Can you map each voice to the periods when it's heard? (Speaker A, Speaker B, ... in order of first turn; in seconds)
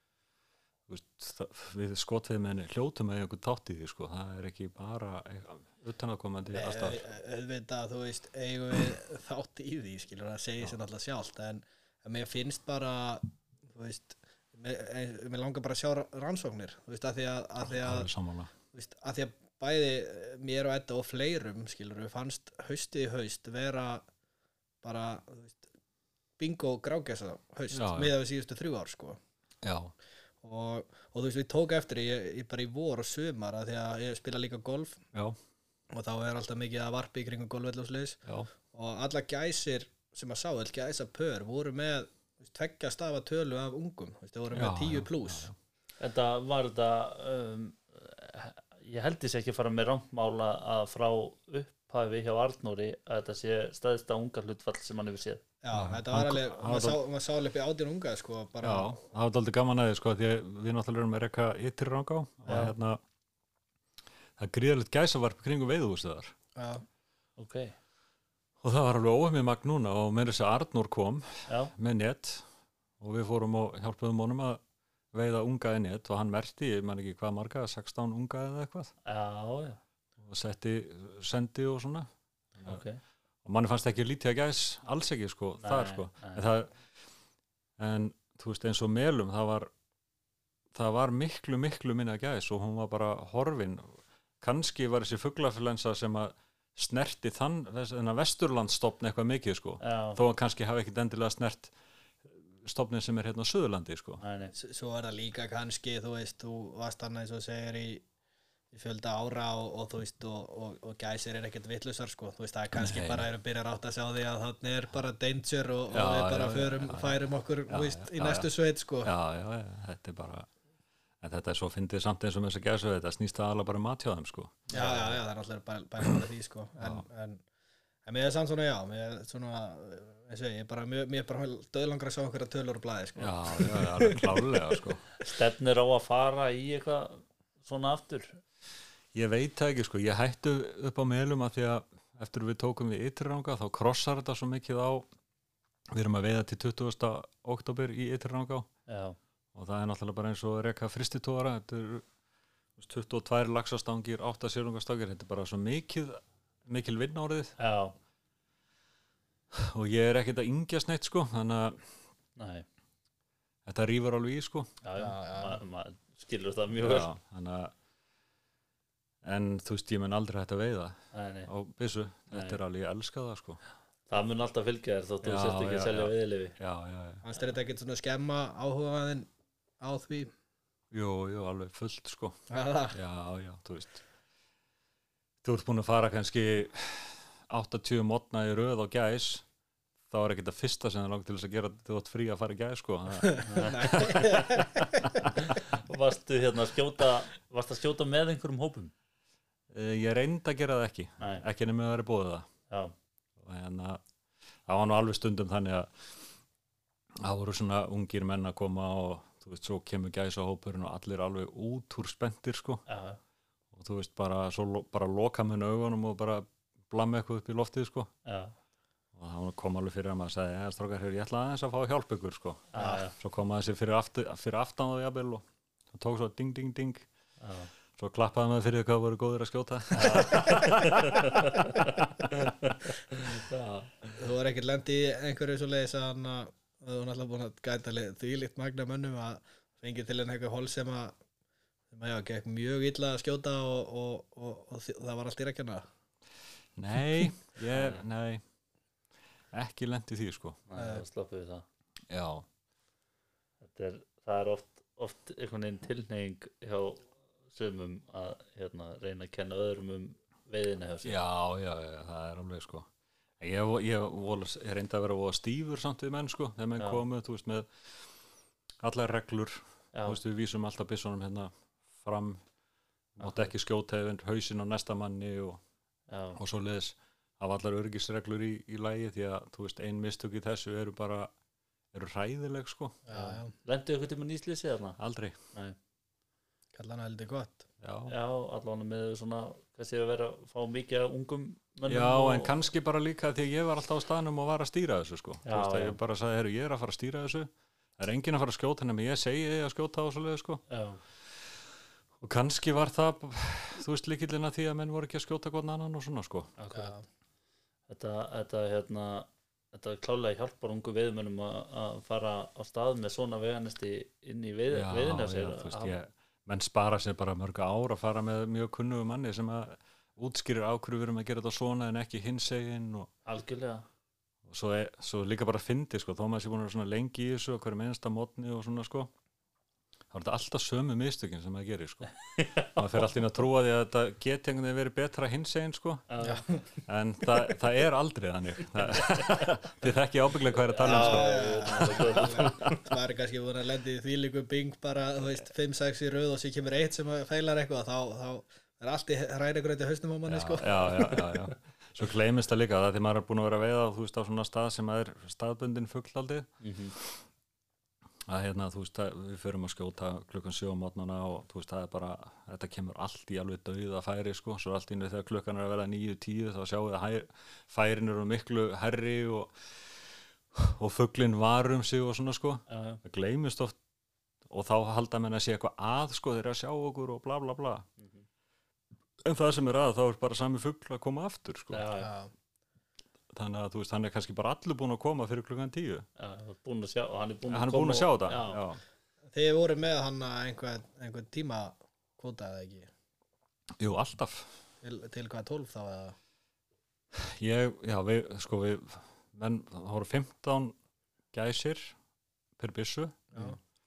Speaker A: 0.9-7.0, 17.6-18.5, 27.7-28.1, 29.6-29.9, 44.5-45.5, 55.7-57.0, 58.6-63.0, 64.4-66.3, 68.6-72.5, 73.0-74.6, 75.1-78.9, 80.2-82.8, 83.4-86.7, 87.8-89.7, 90.7-101.7, 102.2-104.2, 112.7-113.3, 115.9-118.5, 119.0-120.5, 121.2-124.8, 126.8-127.0, 133.2-135.0, 139.1-145.1, 145.9-148.7, 149.5-152.1, 152.8-157.5, 159.5-161.9, 163.6-164.7, 166.8-167.7, 169.2-173.6, 175.2-177.2, 180.9-182.4, 182.9-184.0, 185.4-189.4, 190.1-195.3, 199.7-202.5, 203.4-204.0, 204.7-206.0, 207.2-212.8, 213.7-218.1, 219.1-227.1, 227.9-231.6, 246.8-248.4, 249.5-250.6, 252.1-252.4, 261.0-262.9, 263.4-267.9, 268.8-272.4, 273.1-275.6, 276.4-281.3, 281.9-283.0, 285.0-285.4, 287.8-288.1, 291.9-300.6, 302.2-306.5, 314.7-323.1, 324.4-329.1, 330.1-332.1, 332.8-336.1, 336.9-342.8, 350.2-357.2, 358.3-369.5, 370.5-373.8, 374.5-377.9, 379.2-381.8, 383.3-386.1, 387.5-388.8, 393.8-394.5, 397.1-400.8, 401.3-401.9, 402.6-403.3
Speaker B: 6.5-18.1, 18.7-24.1, 24.8-25.6, 26.4-29.2, 30.4-35.0, 35.9-45.5, 55.6-59.0, 66.5-66.8, 104.5-108.0, 108.7-119.1, 124.7-127.4, 128.1-134.8, 164.9-165.6, 177.2-179.3, 179.8-180.3, 182.5-183.0, 193.2-195.3, 230.0-230.6, 234.2-241.2, 241.9-245.8, 250.8-251.0, 283.1-283.5, 286.7-287.6, 306.7-307.0, 336.2-336.6, 340.8-351.0, 382.0-382.3, 389.3-392.9, 394.8-396.1
Speaker C: 46.0-55.4, 62.5-62.7, 67.4-67.8, 71.5-71.7, 79.0-79.8, 82.6-83.0, 85.6-86.4, 99.8-100.2, 104.2-104.5, 124.7-125.2, 135.2-138.4, 148.9-149.2, 157.6-157.9, 162.4-162.7, 164.8-167.1, 171.1-171.5, 172.3-172.6, 174.1-176.6, 193.4-194.4, 195.3-198.9, 212.9-213.2, 218.2-218.5, 222.7-223.1, 227.4-227.7, 229.9-234.2, 247.7-248.0, 250.7-251.6, 253.6-261.2, 266.8-267.0, 269.9-270.2, 273.2-273.5, 276.1-276.4, 283.1-285.0, 288.1-292.6, 295.4-296.0, 300.7-301.0, 306.6-306.9, 307.9-316.0, 323.2-323.8, 332.3-333.1, 336.1-336.5, 339.0-339.5, 340.5-342.8, 356.6-356.9, 372.7-373.0, 378.0-378.2, 381.7-382.1, 386.2-388.6